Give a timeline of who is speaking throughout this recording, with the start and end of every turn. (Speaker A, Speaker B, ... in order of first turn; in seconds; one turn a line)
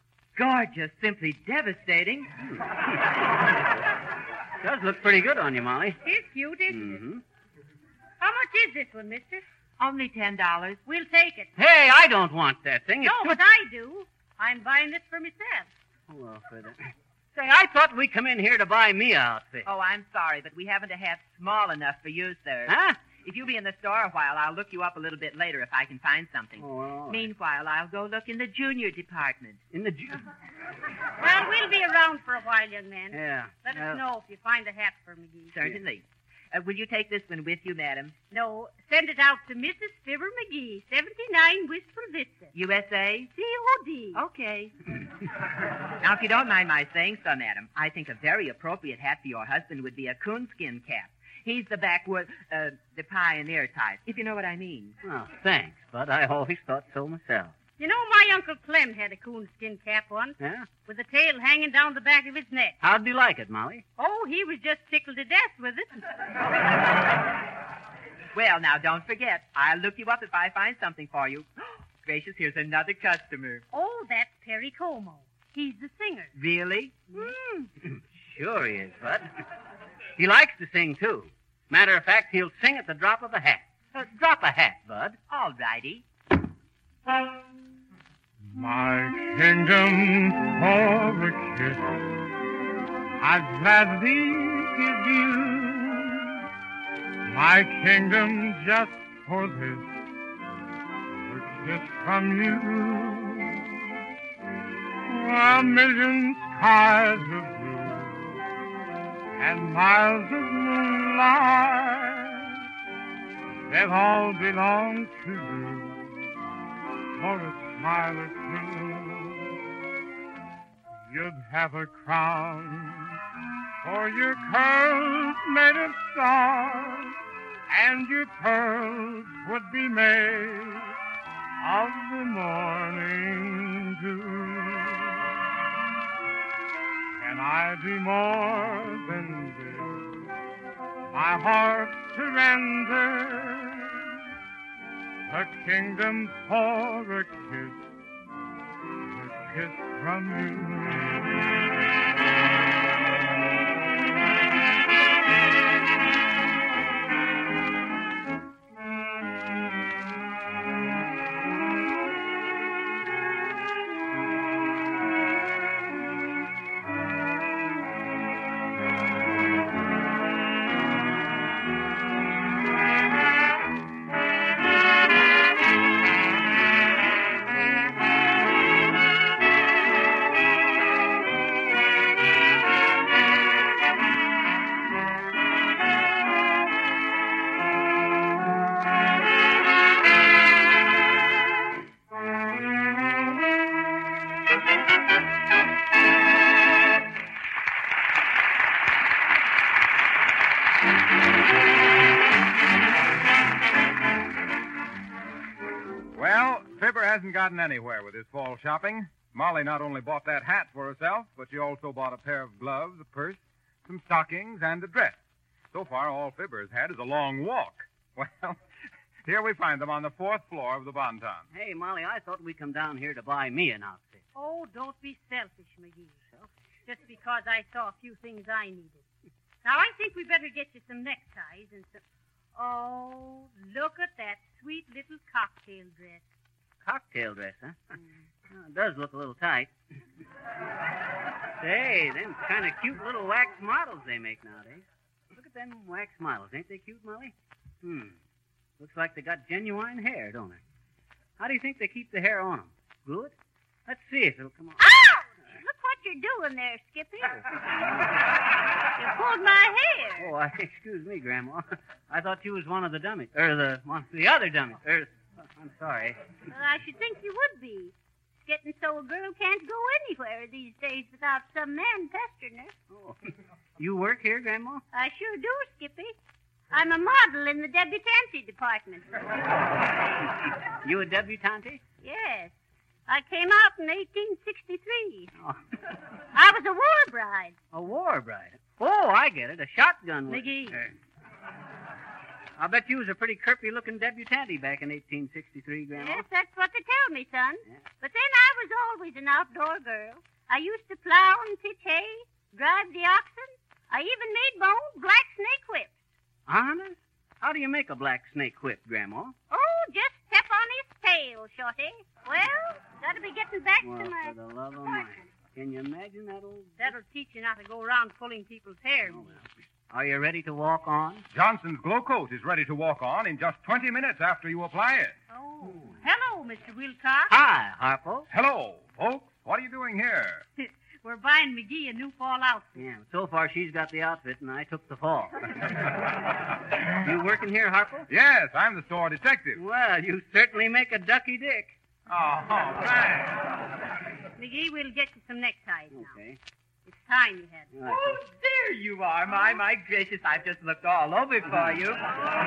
Speaker A: 0.3-2.3
Speaker B: 2.4-2.8
Speaker B: 4.6-6.0
Speaker C: 6.0-7.0
Speaker B: 6.7-7.2
Speaker C: 8.2-9.4
Speaker A: 9.8-10.8
Speaker C: 10.8-11.5
Speaker B: 11.6-13.4
Speaker C: 13.0-15.7
Speaker B: 16.1-19.7
Speaker A: 19.6-29.6
Speaker B: 22.7-23.0
Speaker B: 26.6-27.3
Speaker B: 29.7-30.2
Speaker C: 31.2-35.5
Speaker B: 33.1-34.0
Speaker A: 35.5-38.1
Speaker C: 38.3-42.5
Speaker A: 42.5-43.3
Speaker C: 43.3-44.2
Speaker A: 44.1-44.8
Speaker A: 46.0-55.0
Speaker B: 55.0-57.5
Speaker C: 57.8-60.4
Speaker B: 60.4-60.7
Speaker C: 60.9-62.8
Speaker B: 62.8-63.8
Speaker C: 64.0-66.0
Speaker A: 68.3-73.6
Speaker C: 73.7-76.3
Speaker A: 76.3-77.7
Speaker B: 78.2-79.3
Speaker B: 80.2-85.2
Speaker A: 85.3-86.0
Speaker D: 88.5-92.0
Speaker D: 93.2-96.4
Speaker D: 97.2-99.9
Speaker D: 101.2-103.8
Speaker D: 105.0-108.4
Speaker D: 109.4-112.5
Speaker D: 113.7-116.1
Speaker D: 117.2-119.5
Speaker D: 121.1-123.2
Speaker D: 123.8-127.2
Speaker D: 127.7-130.9
Speaker D: 131.6-135.1
Speaker D: 137.2-140.1
Speaker D: 141.1-144.1
Speaker D: 145.3-147.8
Speaker D: 149.1-151.3
Speaker E: 206.1-215.2
Speaker E: 215.7-218.6
Speaker E: 219.2-221.4
Speaker B: 221.5-224.2
Speaker C: 224.3-226.3
Speaker C: 226.8-229.0
Speaker C: 229.6-232.0
Speaker C: 232.6-236.2
Speaker B: 236.8-237.8
Speaker B: 238.5-239.7
Speaker B: 241.6-248.2
Speaker B: 248.8-250.6
Speaker B: 251.4-253.3
Speaker B: 253.9-254.8
Speaker C: 255.5-257.4
Speaker B: 257.4-258.1
Speaker C: 258.9-260.3
Speaker B: 260.2-266.2
Speaker C: 266.5-267.9
Speaker C: 268.4-272.7
Speaker B: 272.9-273.2
Speaker B: 273.8-274.8
Speaker C: 274.9-276.1
Speaker C: 276.7-279.2
Speaker B: 280.8-281.8
Speaker C: 282.0-282.5
Speaker C: 283.1-285.3
Speaker C: 286.3-287.5
Speaker B: 287.7-290.9
Speaker C: 290.3-290.8
Speaker B: 292.6-296.2
Speaker C: 295.9-305.9
Speaker B: 306.5-309.3
Speaker C: 309.5-315.0
Speaker B: 313.8-316.9
Speaker C: 316.8-319.2
Speaker B: 319.1-321.2
Speaker E: 321.3-325.1
Speaker C: 325.3-327.3
Speaker B: 327.3-328.3
Speaker E: 328.3-330.4
Speaker C: 330.6-332.8
Speaker B: 332.8-335.5
Speaker B: 336.9-338.1
Speaker E: 338.1-339.6
Speaker B: 339.6-341.8
Speaker E: 342.1-343.3
Speaker C: 344.4-346.1
Speaker B: 345.9-346.4
Speaker C: 346.9-347.7
Speaker B: 347.7-348.2
Speaker A: 347.9-352.1